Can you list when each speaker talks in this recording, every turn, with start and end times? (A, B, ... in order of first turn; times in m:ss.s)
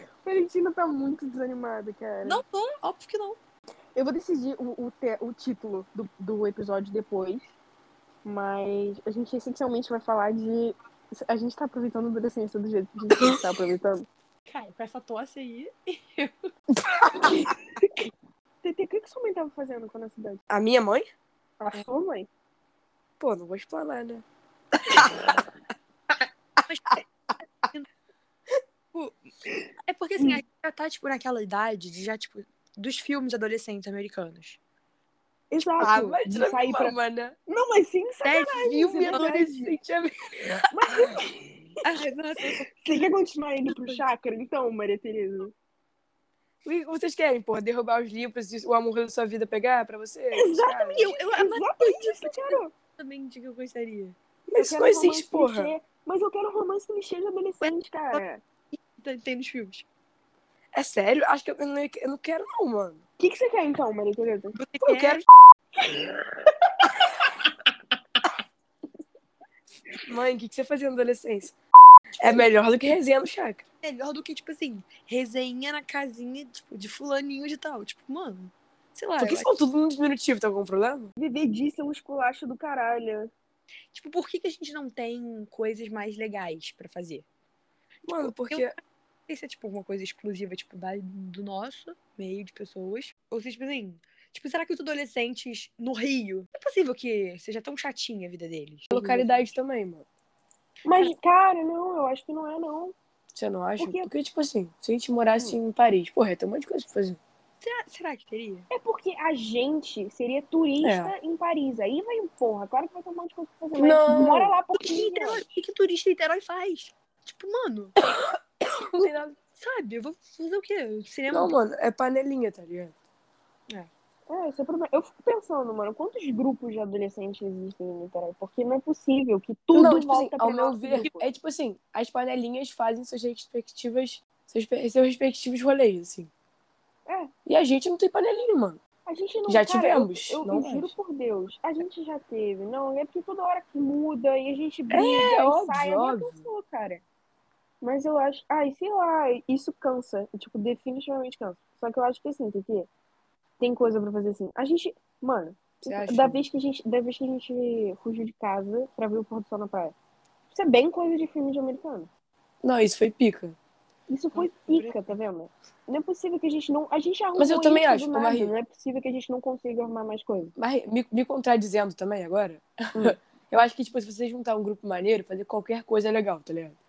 0:00.2-0:02.4 A
0:02.2-0:03.4 B
0:03.9-0:07.5 A
0:08.2-0:14.0 A
0:14.4-0:16.3 B
0:17.2-0:17.5 A
0:18.6-0:20.4 A
0:20.5-0:21.0 C
0:21.6-0:22.3 A
0:23.2-0:24.2 C
0:25.0-0:25.4 C
0:26.7-0:27.0 B
0:28.9-0:29.2 B
0:29.9-0:34.6 B
0:35.5-0:39.3 A
0:35.8-0:37.4 C
0:38.2-0:39.7 B
0:38.8-0:41.1 C
0:40.7-0:41.4 A
0:41.8-0:43.0 B
0:42.8-0:45.5 A
0:43.7-0:44.1 B
0:46.6-0:51.1 C
0:50.3-0:52.7 A
0:50.9-0:54.2 B
0:54.5-0:55.7 C
0:54.6-0:58.4 A
0:57.6-0:58.2 B
0:58.9-0:59.8 B
1:00.7-1:03.0 C
1:03.2-1:04.6 A
1:04.6-1:05.2 B
1:04.8-1:05.2 C
1:05.8-1:06.5 A
1:10.1-1:11.5 C
1:12.2-1:13.6 C
1:13.8-1:19.5 B
1:19.2-1:21.1 C
1:21.2-1:23.3 A
1:23.9-1:27.2 B
1:28.0-1:28.7 C
1:28.2-1:28.6 B
1:29.3-1:39.5 B
1:38.9-1:39.3 A
1:38.9-1:40.0 C
1:40.8-1:42.9 A
1:40.9-1:41.2 B
1:43.3-1:47.2 C
1:43.8-1:44.1 A
1:47.6-1:48.7 B
1:48.7-1:55.6 A
1:50.8-1:51.1 C
1:53.8-1:54.6 C
1:54.7-1:58.0 B
1:58.2-1:59.3 C
1:59.5-2:01.6 B
2:01.3-2:02.9 C
2:04.3-2:11.3 A
2:09.7-2:16.3 C
2:17.0-2:17.3 A
2:17.4-2:18.8 C
2:19.0-2:27.0 A
2:19.5-2:21.0 C
2:24.9-2:26.4 C
2:27.8-2:32.9 A
2:33.6-2:39.9 A
2:35.8-2:36.4 C
2:40.5-2:42.1 A
2:42.6-2:43.6 C
2:44.1-2:50.5 A
2:44.4-2:44.9 B
2:47.4-2:48.5 C
2:50.6-2:56.8 C